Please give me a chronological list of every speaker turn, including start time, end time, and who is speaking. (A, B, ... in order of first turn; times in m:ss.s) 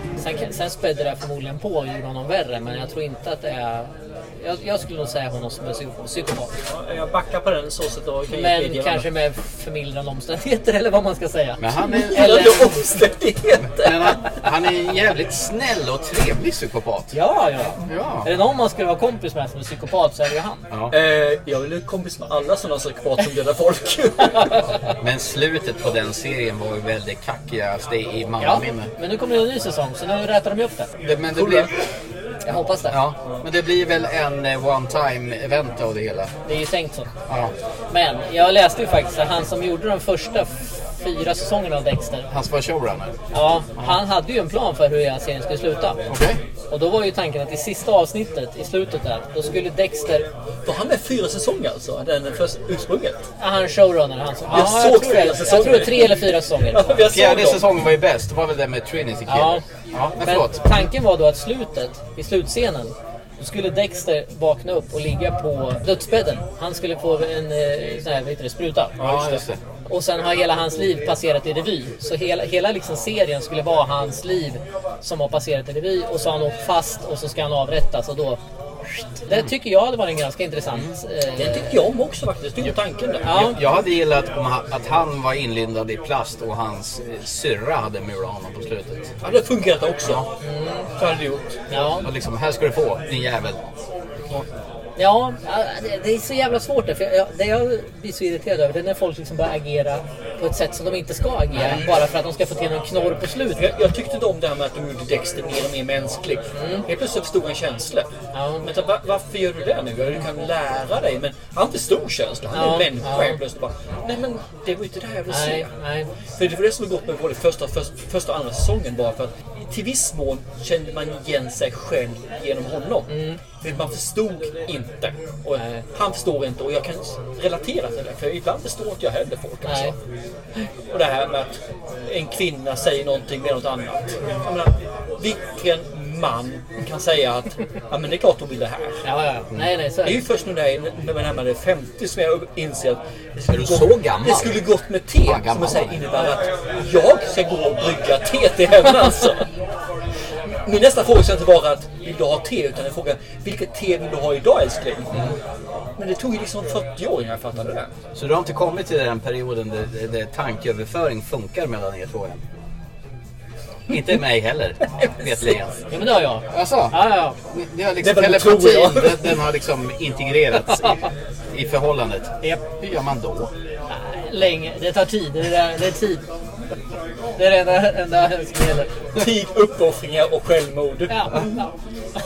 0:00.2-0:06.5 A
0:06.7-0:09.1 B
0:08.3-0:12.7 A
0:11.6-0:12.5 C
0:11.9-0:14.2 B
0:13.8-0:17.1 C
0:17.1-0:20.6 A
0:17.9-0:18.3 C
0:20.9-0:24.6 B
0:25.0-0:28.9 C
0:28.4-0:30.9 A
0:31.0-0:31.7 C
0:31.3-0:31.7 B
0:32.5-0:33.0 A
0:32.9-0:36.3 C
0:36.4-0:37.1 A
0:37.9-0:42.3 A
0:42.3-0:43.1 C
0:43.3-0:46.0 A
0:46.1-0:46.4 C
0:46.7-0:50.3 A
0:50.7-0:53.2 B
0:53.4-0:57.0 A
0:54.5-0:57.7 B
0:57.1-1:00.6 C
0:59.3-0:59.6 A
1:00.2-1:09.0 A
1:09.0-1:09.4 B
1:09.0-1:09.6 C
1:09.9-1:18.4 A
1:19.2-1:21.7 A
1:21.4-1:23.4 B
1:23.3-1:23.6 A
1:23.3-1:29.1 C
1:29.2-1:30.2 B
1:30.4-1:30.9 A
1:31.0-1:31.5 B
1:31.7-1:32.1 A
1:32.0-1:33.6 C
1:35.0-1:43.7 A
1:41.6-1:41.8 B
1:43.6-1:48.1 B
1:46.5-1:46.8 A
1:48.3-1:48.7 A
1:48.6-1:55.7 B
1:52.5-1:53.4 A
1:55.3-1:56.1 A
1:56.4-2:10.0 B
2:03.1-2:03.4 A
2:05.6-2:05.8 A
2:09.7-2:09.9 A
2:10.9-2:19.0 B
2:19.0-2:20.2 A
2:20.0-2:29.5 B
2:23.5-2:24.6 C
2:25.2-2:26.0 C
2:30.7-2:35.3 B
2:35.1-2:35.4 C
2:36.0-2:37.9 B
2:38.2-2:42.4 C
2:43.9-2:45.8 C
2:45.9-2:47.4 A
2:46.5-2:47.0 C
2:47.5-2:51.0 C
2:48.0-2:49.4 B
2:51.5-2:53.5 C
2:53.9-2:56.2 A
2:57.4-2:58.9 A
2:59.2-3:01.3 B
3:01.1-3:01.7 A